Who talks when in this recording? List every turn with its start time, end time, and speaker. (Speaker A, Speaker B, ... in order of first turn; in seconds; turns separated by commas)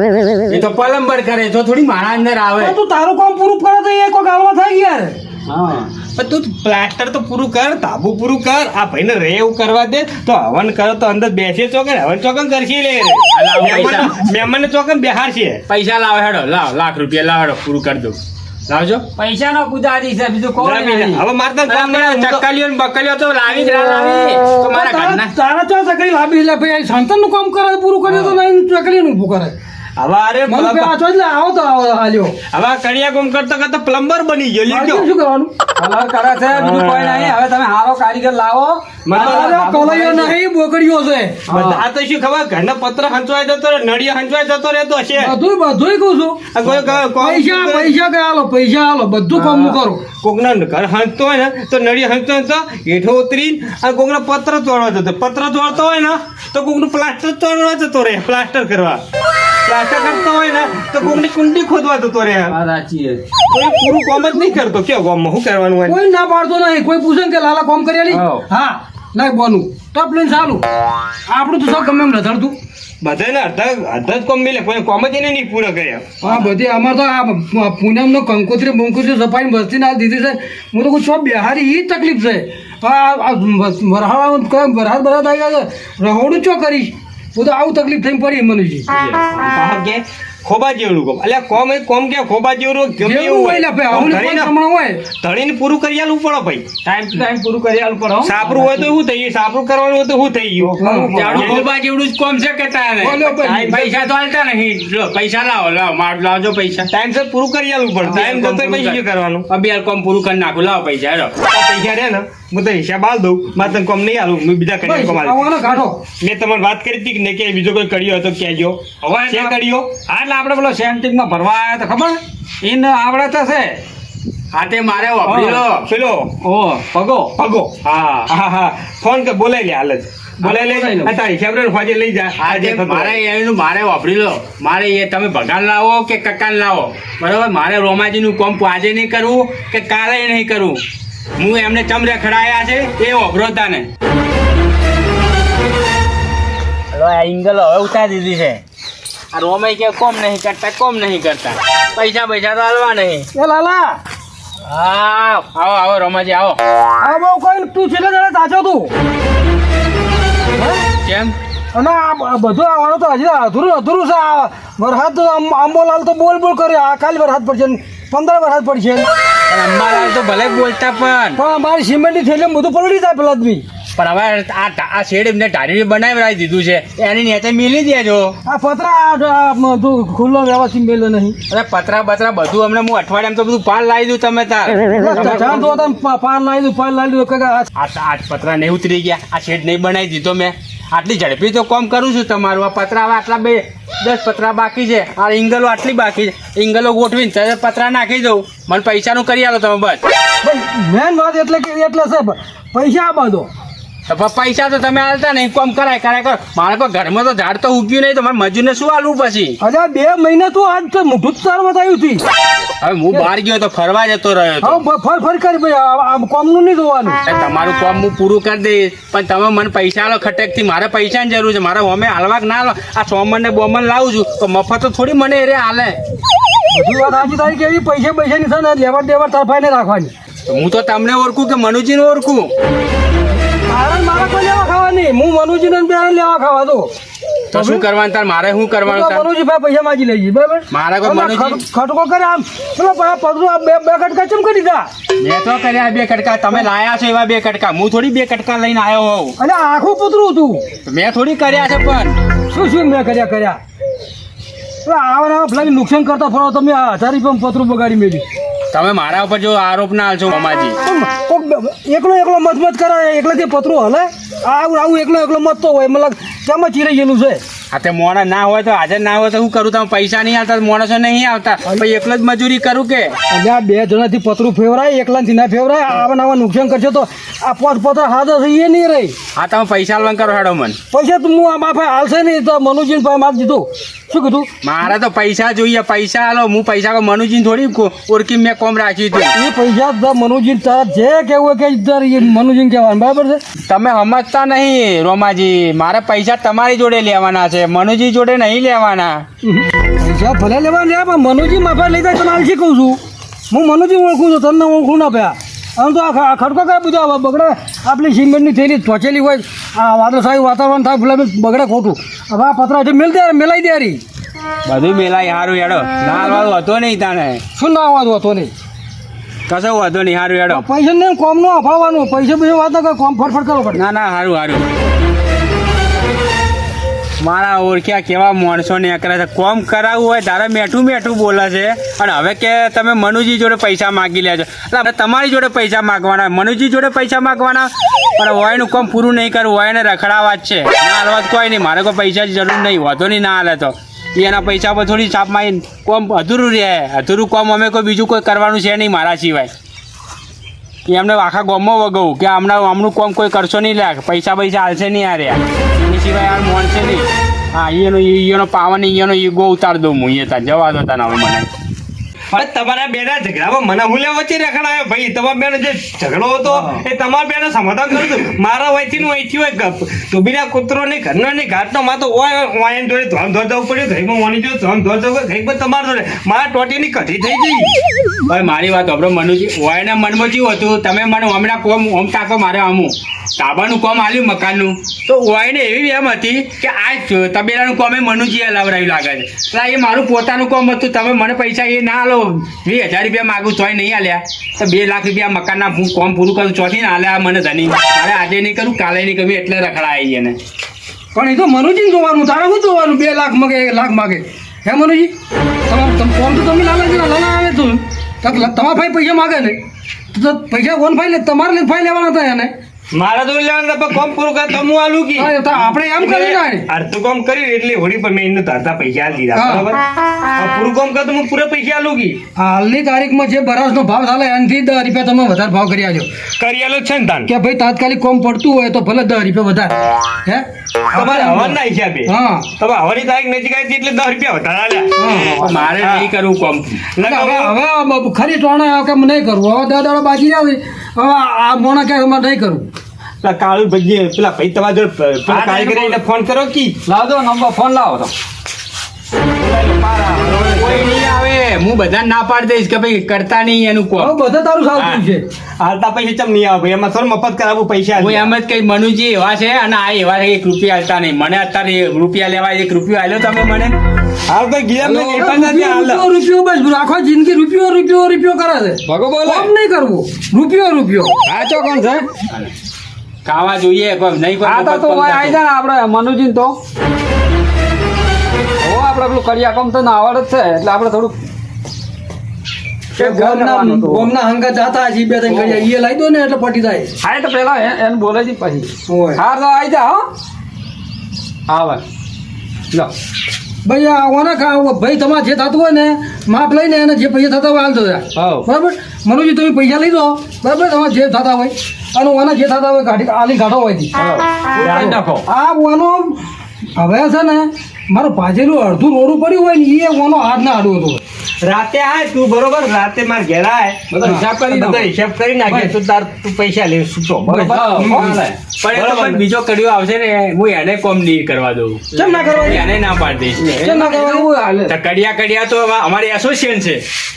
Speaker A: 0.5-2.8, Speaker B: 2.6-5.2, Speaker C: 5.5-5.9, Speaker D: 6.1-15.6, Speaker A: 13.3-14.1, Speaker A: 15.7-18.2, Speaker A: 18.7-19.0, Speaker C: 19.2-21.2, Speaker D: 20.6-22.4, Speaker A: 21.7-25.3, Speaker B: 24.6-29.5, Speaker D: 30.0-30.9, Speaker B: 30.5-32.4, Speaker D: 32.5-35.1, Speaker B: 34.7-35.5, Speaker C: 35.8-40.4, Speaker D: 36.5-37.3, Speaker D: 39.0-39.6, Speaker B: 39.1-41.4, Speaker C: 41.5-41.8, Speaker D: 41.5-45.3, Speaker B: 45.1-50.0, Speaker D: 46.5-47.9, Speaker C: 49.4-49.7, Speaker D: 50.2-59.0, Speaker D: 59.6-62.5, Speaker C: 62.5-63.2, Speaker D: 63.5-66.0, Speaker B: 65.9-70.6, Speaker C: 68.1-68.4, Speaker B: 71.3-72.5, Speaker D: 73.0-76.2, Speaker B: 76.2-88.9, Speaker C: 88.9-89.2, Speaker D: 89.3-94.5, Speaker B: 93.0-95.0, Speaker D: 95.2-96.7, Speaker C: 96.8-98.9, Speaker D: 98.2-101.7, Speaker C: 100.7-101.6, Speaker B: 100.8-101.1, Speaker A: 101.1-106.9, Speaker B: 103.0-103.8, Speaker D: 103.4-103.9, Speaker D: 106.9-109.5, Speaker A: 108.0-111.3, Speaker D: 111.5-119.9, Speaker B: 114.8-116.0, Speaker C: 119.0-123.8, Speaker A: 124.5-125.8, Speaker C: 125.2-125.6, Speaker D: 125.8-126.3, Speaker C: 126.4-127.3, Speaker D: 127.3-127.8, Speaker A: 127.9-128.3, Speaker D: 128.3-133.2, Speaker C: 130.4-131.1, Speaker A: 132.4-140.8, Speaker A: 141.4-143.9, Speaker A: 146.9-148.6, Speaker A: 149.3-153.3, Speaker B: 153.3-154.0, Speaker A: 154.7-156.6, Speaker B: 157.0-158.9, Speaker B: 160.5-160.8, Speaker A: 161.0-161.3, Speaker B: 161.7-169.1, Speaker A: 169.5-171.4, Speaker B: 171.3-173.6, Speaker A: 174.0-178.3, Speaker B: 178.4-181.4, Speaker A: 181.5-185.7, Speaker B: 184.9-187.7, Speaker A: 187.8-200.0, Speaker B: 200.4-203.5, Speaker A: 204.1-209.6, Speaker B: 209.6-212.2, Speaker A: 212.8-214.8, Speaker B: 214.6-217.2, Speaker A: 217.2-226.0, Speaker B: 226.7-230.1, Speaker A: 230.5-232.5, Speaker B: 233.7-236.9, Speaker B: 237.5-237.8, Speaker A: 237.5-239.3, Speaker B: 238.8-244.9, Speaker A: 240.7-241.6, Speaker A: 245.2-249.3, Speaker B: 249.4-250.6, Speaker A: 250.8-252.2, Speaker B: 252.5-253.6, Speaker B: 254.8-258.2, Speaker A: 258.7-260.8, Speaker B: 260.8-267.4, Speaker A: 267.7-273.1, Speaker B: 273.3-279.1, Speaker A: 279.4-280.8, Speaker B: 280.9-284.5, Speaker A: 284.6-289.3, Speaker B: 289.3-293.4, Speaker A: 293.6-299.2, Speaker B: 299.4-303.0, Speaker B: 303.5-314.0, Speaker A: 314.6-317.4, Speaker B: 316.1-316.5, Speaker B: 317.6-318.5, Speaker A: 319.5-320.6, Speaker B: 320.5-323.8, Speaker A: 323.7-324.7, Speaker A: 327.2-349.5, Speaker A: 350.9-361.5, Speaker D: 362.3-377.7, Speaker A: 378.3-400.4, Speaker B: 401.1-405.1, Speaker B: 405.7-409.6, Speaker B: 410.1-412.5, Speaker D: 412.9-419.8, Speaker B: 415.2-416.7, Speaker B: 419.3-419.7, Speaker D: 420.3-422.2, Speaker B: 422.4-426.1, Speaker D: 426.4-427.3, Speaker B: 427.2-432.5, Speaker D: 430.9-436.1, Speaker B: 435.0-435.4, Speaker A: 435.4-436.8, Speaker D: 436.9-437.5, Speaker B: 437.0-442.7, Speaker D: 443.2-446.8, Speaker C: 445.3-446.0, Speaker C: 446.9-448.1, Speaker D: 449.4-450.9, Speaker A: 450.5-454.2, Speaker B: 454.0-455.2, Speaker A: 454.8-455.0, Speaker D: 455.6-458.3, Speaker A: 458.0-463.7, Speaker D: 464.3-466.1, Speaker B: 464.8-471.1, Speaker C: 468.9-469.5, Speaker C: 471.2-472.1, Speaker A: 473.2-475.4, Speaker C: 474.4-476.6, Speaker C: 478.6-481.1, Speaker C: 482.9-484.1, Speaker B: 483.0-486.9, Speaker C: 485.3-485.7, Speaker C: 487.0-490.1, Speaker B: 488.9-489.2, Speaker C: 491.5-491.8, Speaker B: 493.6-503.9, Speaker C: 498.1-498.4, Speaker C: 503.9-505.2, Speaker D: 504.6-504.9, Speaker B: 504.6-506.2, Speaker B: 506.8-511.0, Speaker D: 511.4-517.9, Speaker C: 513.9-514.9, Speaker B: 514.0-514.2, Speaker B: 515.5-515.7, Speaker C: 517.3-518.4, Speaker B: 517.4-518.2, Speaker A: 518.6-523.4, Speaker D: 518.7-519.2, Speaker B: 521.9-522.7, Speaker C: 522.0-522.3, Speaker C: 523.4-524.7, Speaker B: 523.6-524.3, Speaker A: 524.7-526.8